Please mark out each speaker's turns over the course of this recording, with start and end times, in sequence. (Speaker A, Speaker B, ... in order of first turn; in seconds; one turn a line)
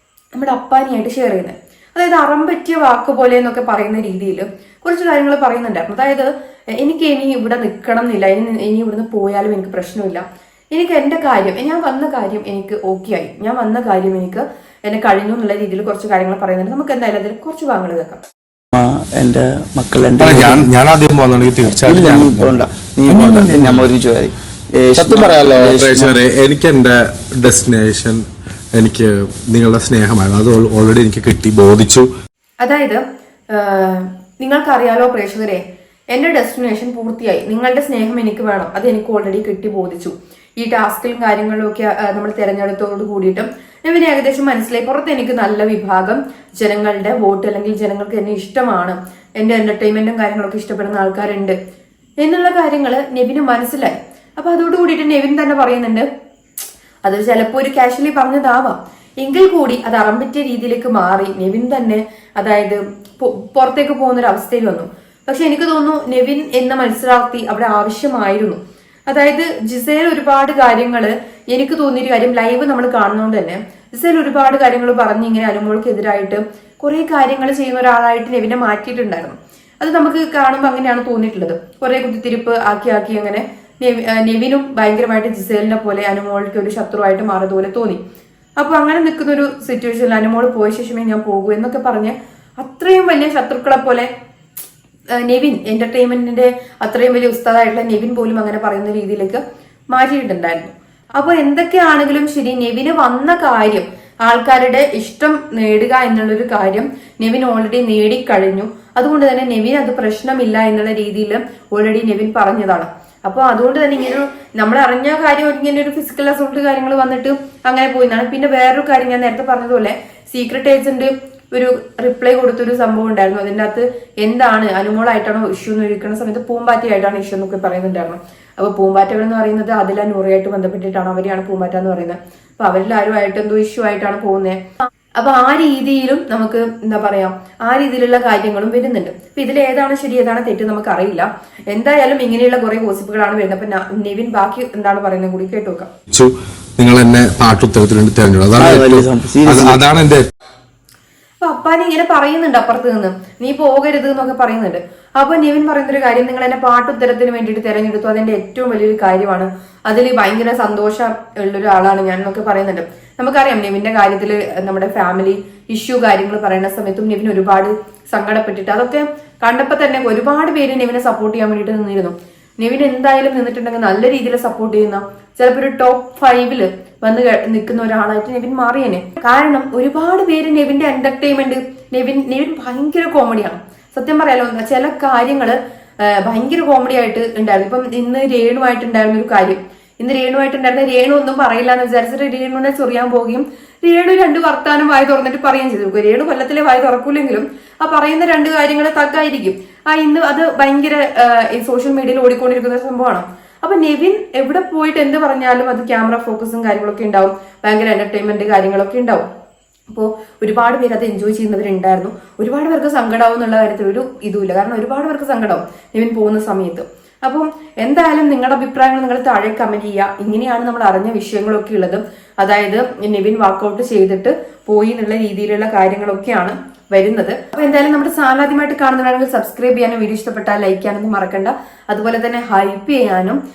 Speaker A: 0.4-18.2
Speaker B: 18.7-20.7
Speaker C: 20.2-23.9
Speaker B: 21.8-26.2
Speaker C: 25.0-28.2
Speaker C: 28.8-32.1
Speaker A: 32.6-51.6
Speaker A: 52.2-56.1
Speaker A: 57.0-88.0
Speaker A: 88.6-94.1
Speaker A: 95.2-134.6
Speaker A: 135.2-145.9
Speaker C: 146.1-150.2
Speaker B: 148.6-149.8
Speaker A: 151.4-209.3
Speaker A: 209.9-233.4